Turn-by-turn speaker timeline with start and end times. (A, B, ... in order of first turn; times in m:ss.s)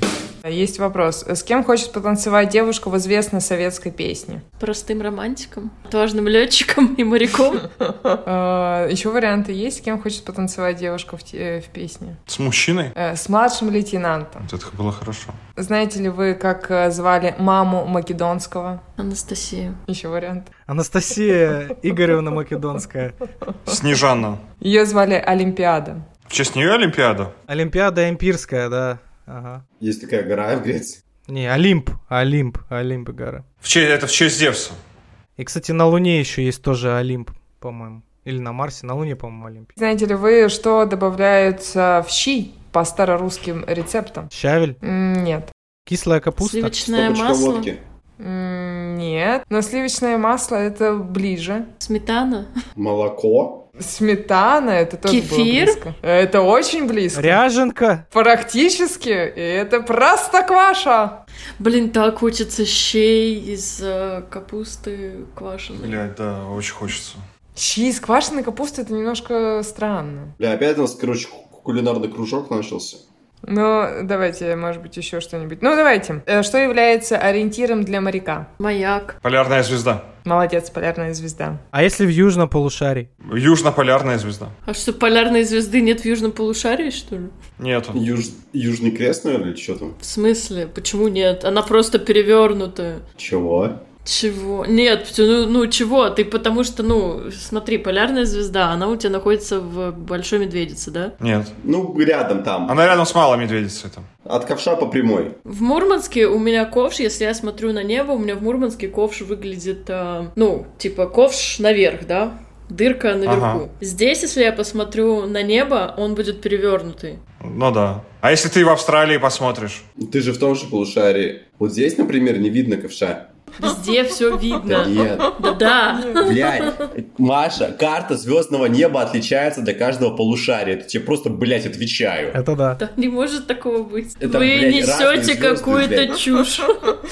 0:00.4-0:04.4 A
0:04.6-0:07.7 B
0:07.9-0:12.2 A
0:12.3-0:13.0 C
0:13.0-0:14.5 A
0:14.4-0:15.4 C
0:15.6-0:18.8 A
0:19.0-0:19.8 B
0:19.9-0:20.5 A
0:20.7-0:23.2 D
0:23.7-0:24.4 C
0:24.6-0:26.0 A
0:26.3-0:27.3 C
0:27.5-0:29.6 D
0:29.8-0:31.0 E
0:31.3-0:33.4 D
0:33.6-0:34.8 C
0:35.4-0:39.7 D
0:39.8-0:44.3 A
0:44.3-0:44.8 D
0:44.8-0:45.5 A
0:45.9-0:46.8 D
0:46.4-0:47.7 B
0:46.9-0:47.8 E
0:48.2-0:51.7 A
0:51.8-0:52.5 B
0:52.8-0:53.6 E
0:53.8-0:57.4 A
0:55.1-0:55.8 B
0:57.2-0:58.0 D
0:58.1-1:01.2 A
1:01.6-1:06.0 B
1:05.8-1:07.2 C
1:07.6-1:10.4 A
1:10.4-1:13.0 E
1:13.5-1:18.5 A
1:18.6-1:19.2 B
1:19.2-1:20.1 C
1:20.2-1:21.6 A
1:21.7-1:23.1 D
1:23.2-1:24.5 C
1:24.7-1:27.3 B
1:27.6-1:28.0 C
1:27.9-1:30.0 E
1:30.0-1:33.0 B
1:33.2-1:33.8 E
1:34.0-1:41.2 B
1:41.2-1:41.6 C
1:41.6-1:42.9 E
1:42.7-1:44.1 C
1:44.2-1:45.4 E
1:45.4-1:57.2 B
1:53.3-1:53.6 C
1:57.4-1:59.8 C
2:00.0-2:03.3 E
2:03.6-2:06.7 B
2:04.6-2:05.4 E
2:06.2-2:12.4 E
2:12.3-2:12.8 D
2:12.8-2:16.9 B
2:14.2-2:16.2 E